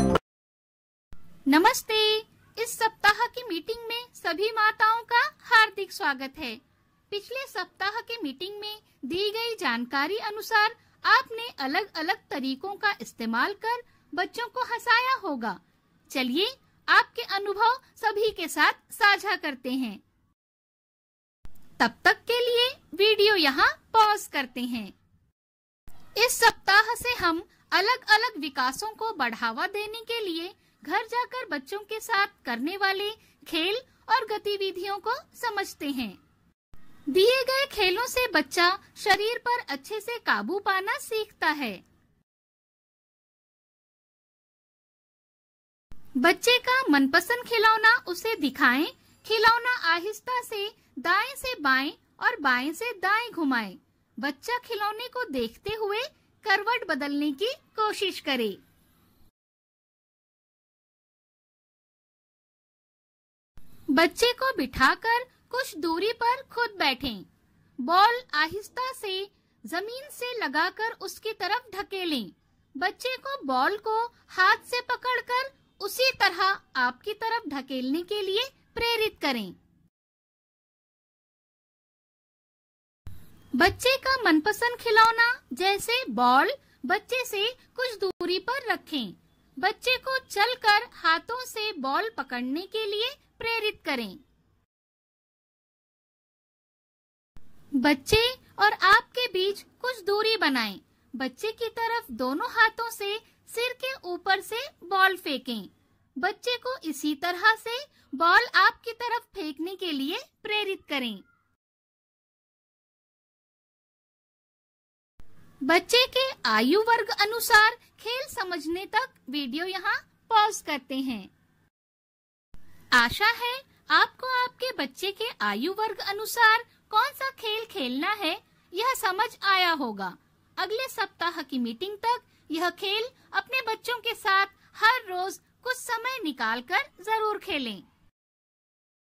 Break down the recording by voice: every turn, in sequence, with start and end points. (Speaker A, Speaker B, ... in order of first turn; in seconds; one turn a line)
Speaker A: 1.5-20.0
Speaker A: 21.8-24.9
Speaker A: 26.2-36.2
Speaker A: 37.1-41.8
Speaker A: 46.2-58.6
Speaker A: 63.9-67.2
Speaker A: 67.8-79.5
Speaker A: 83.6-94.2
Speaker A: 97.8-111.2
Speaker A: 115.7-121.3
Speaker A: 123.0-137.8